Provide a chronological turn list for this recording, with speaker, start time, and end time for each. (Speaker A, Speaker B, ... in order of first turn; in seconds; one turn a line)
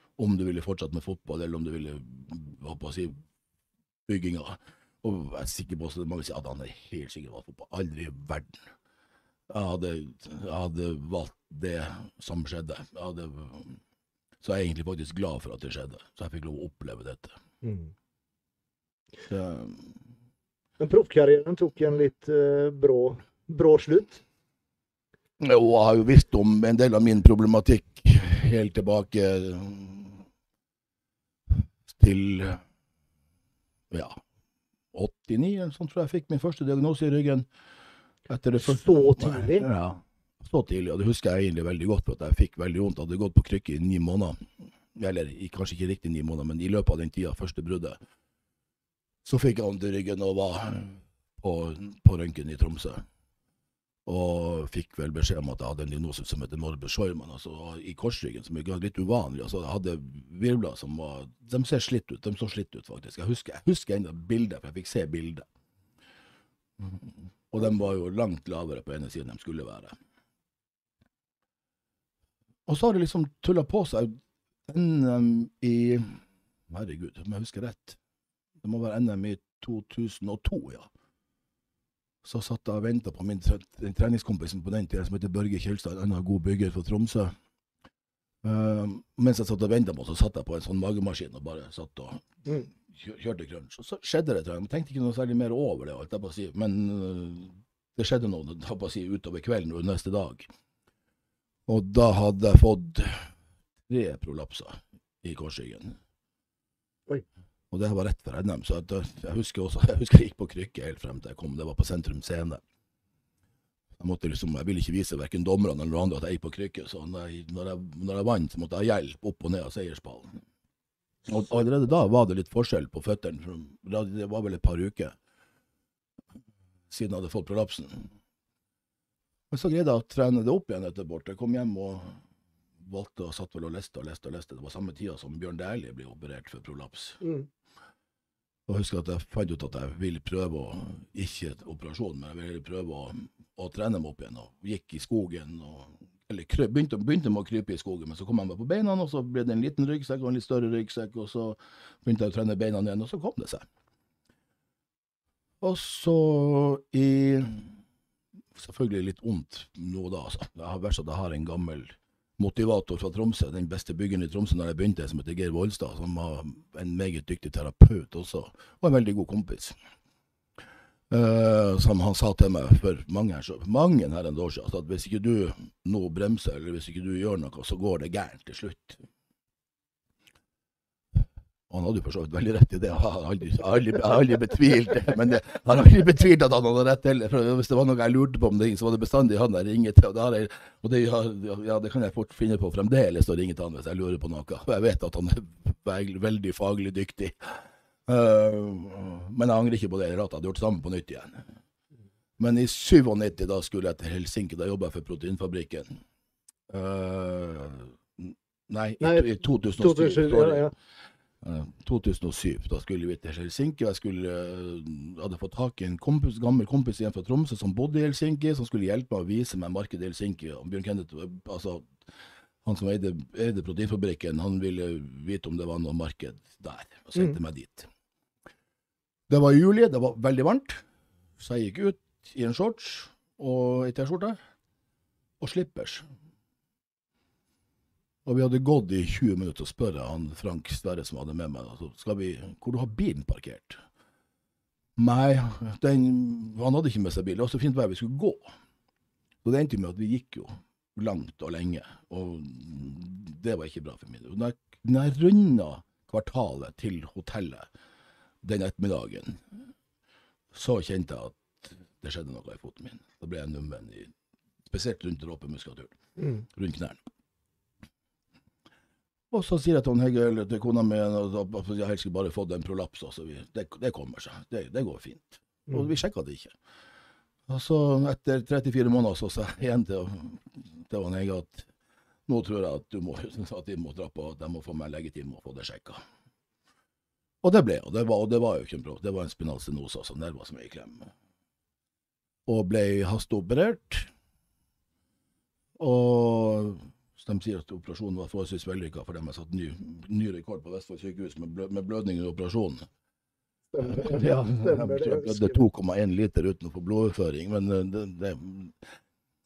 Speaker A: 0.2-3.2
Speaker A: 4.1-8.6
Speaker A: 9.5-13.8
Speaker A: 14.4-17.4
Speaker B: 17.6-17.9
Speaker A: 19.3-20.0
Speaker B: 20.8-24.2
Speaker A: 25.4-30.2
Speaker A: 31.5-32.6
Speaker A: 33.9-34.2
Speaker A: 34.9-37.5
Speaker A: 38.3-48.0
Speaker B: 38.6-39.7
Speaker A: 49.2-53.0
Speaker A: 54.1-65.5
Speaker A: 66.8-69.9
Speaker A: 72.7-78.0
Speaker A: 78.6-80.9
Speaker A: 82.2-87.3
Speaker A: 88.4-100.5
Speaker A: 101.7-103.3
Speaker A: 103.9-106.0
Speaker A: 107.7-112.6
Speaker A: 114.0-120.4
Speaker A: 121.3-125.2
Speaker A: 126.9-128.1
Speaker A: 129.5-132.2
Speaker A: 132.8-137.2
Speaker B: 137.2-137.5
Speaker A: 138.7-153.7
Speaker A: 155.6-157.8
Speaker A: 158.6-169.8
Speaker A: 171.1-179.0
Speaker A: 181.2-201.4
Speaker A: 202.4-206.0
Speaker A: 206.7-210.7
Speaker B: 209.0-210.7
Speaker A: 211.4-222.1
Speaker A: 222.6-227.9
Speaker A: 229.3-230.8
Speaker A: 231.4-234.4
Speaker A: 235.4-236.1
Speaker A: 238.2-243.8
Speaker A: 245.0-248.5
Speaker A: 249.4-257.7
Speaker A: 258.4-259.4
Speaker A: 260.5-264.1
Speaker A: 264.7-265.9
Speaker B: 266.2-266.4
Speaker A: 266.5-267.0
Speaker A: 269.3-276.5
Speaker A: 277.5-281.7
Speaker A: 282.3-286.0
Speaker A: 287.4-291.1
Speaker A: 292.5-294.1
Speaker A: 295.8-302.9
Speaker B: 303.7-305.6
Speaker A: 303.8-308.8